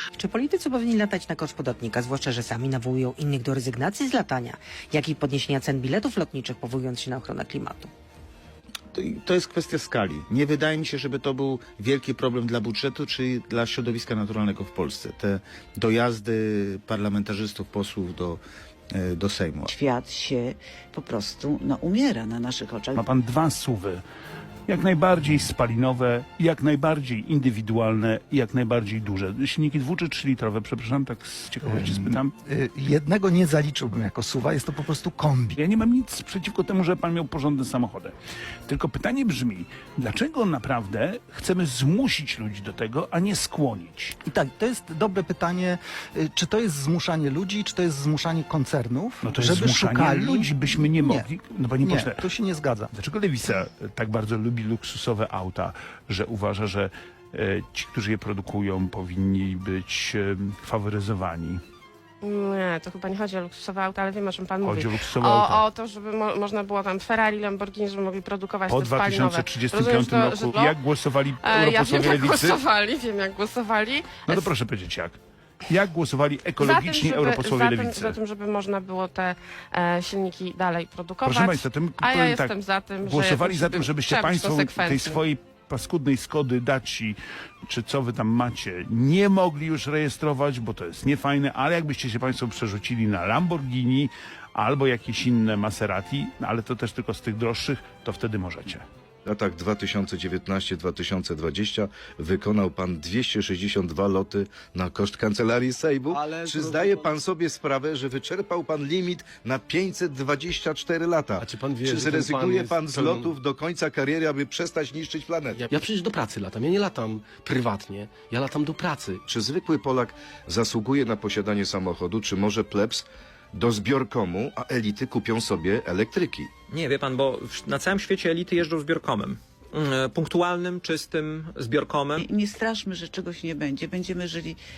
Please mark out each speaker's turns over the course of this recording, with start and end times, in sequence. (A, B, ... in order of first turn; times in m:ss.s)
0:00.2-0:07.9 A
0:08.9-0:18.4 B
0:18.9-0:19.7 B
0:19.6-0:23.0 C
0:22.9-0:24.0 D
0:24.7-0:32.3 D
0:31.6-0:35.6 E
0:35.6-0:38.1 D
0:38.6-0:44.1 D
0:44.2-0:51.3 E
0:49.2-0:52.2 D
0:51.8-0:52.9 E
0:52.9-1:01.6 D
1:02.2-1:10.8 F
1:04.6-1:05.6 D
1:08.7-1:12.6 D
1:11.4-1:14.5 F
1:14.2-1:18.2 D
1:16.6-1:25.2 F
1:21.2-1:38.8 D
1:39.2-1:55.6 G
1:51.4-1:53.4 H
1:55.5-1:59.2 H
1:59.3-2:06.5 G
2:06.7-2:12.2 I
2:12.2-2:14.6 C